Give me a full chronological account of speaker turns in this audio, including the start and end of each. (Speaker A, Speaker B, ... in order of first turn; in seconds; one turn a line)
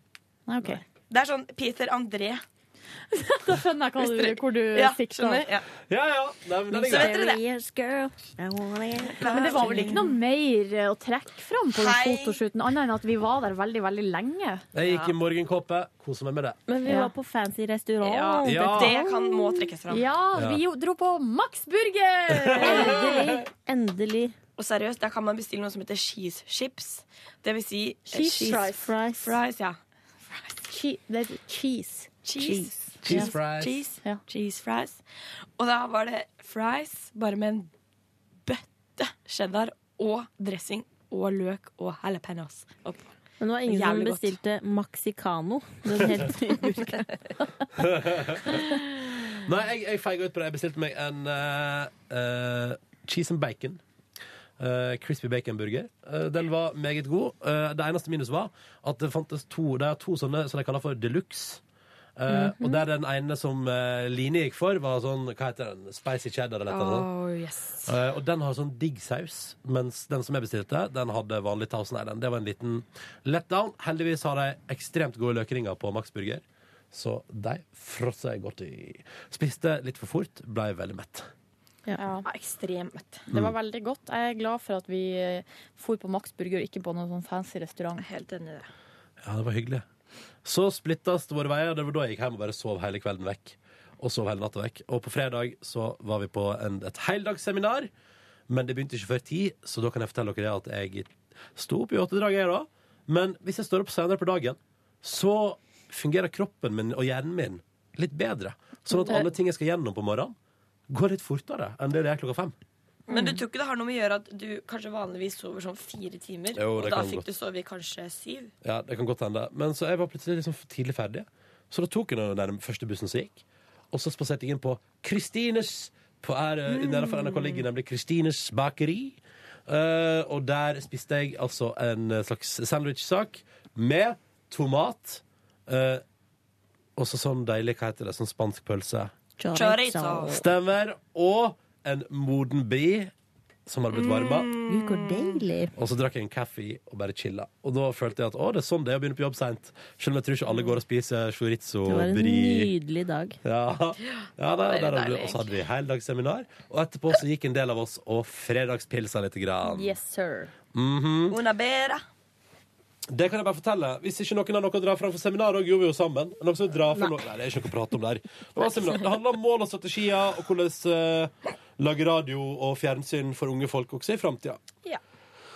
Speaker A: 0.5-0.8
Speaker B: 1.0-2.4
Speaker A: 3.1-5.5
Speaker B: 4.0-5.7
Speaker C: 5.9-7.2
Speaker D: 6.7-9.8
Speaker B: 6.8-7.4
Speaker B: 9.0-10.1
Speaker A: 9.2-14.7
Speaker B: 11.7-12.4
Speaker C: 14.7-16.6
Speaker B: 14.8-15.1
Speaker D: 16.7-19.4
Speaker A: 16.9-17.1
Speaker B: 18.0-20.1
Speaker C: 18.4-18.9
Speaker A: 19.9-23.4
Speaker C: 20.3-20.6
Speaker C: 22.3-22.9
Speaker D: 22.6-24.3
Speaker B: 24.6-29.8
Speaker A: 28.1-28.9
Speaker D: 28.2-29.4
Speaker B: 30.3-30.5
Speaker A: 30.7-32.1
Speaker B: 32.2-35.0
Speaker D: 32.4-33.3
Speaker C: 33.0-33.8
Speaker B: 35.6-37.7
Speaker B: 38.5-43.1
Speaker D: 43.4-47.0
Speaker B: 43.6-44.4
Speaker C: 47.8-48.6
Speaker C: 49.4-53.8
Speaker C: 54.6-61.6
Speaker C: 62.2-67.1
Speaker D: 62.3-62.7
Speaker B: 66.7-67.9
Speaker C: 67.8-81.3
Speaker A: 82.0-82.2
Speaker B: 82.2-83.2
Speaker A: 83.3-88.0
Speaker B: 88.0-88.7
Speaker C: 89.2-89.8
Speaker C: 90.4-97.9
Speaker C: 98.5-110.3
Speaker C: 110.9-112.5
Speaker B: 113.1-118.5
Speaker C: 116.5-117.3
Speaker C: 118.6-136.0
Speaker B: 126.7-127.6
Speaker C: 136.9-139.1
Speaker D: 139.4-140.4
Speaker B: 139.5-140.3
Speaker C: 140.3-143.1
Speaker C: 143.7-144.5
Speaker B: 143.9-145.4
Speaker D: 144.7-145.7
Speaker C: 145.8-152.7
Speaker D: 151.8-153.4
Speaker C: 153.4-159.9
Speaker B: 154.0-155.5
Speaker A: 159.6-160.5
Speaker C: 160.7-161.4
Speaker B: 161.3-162.0
Speaker C: 163.1-174.6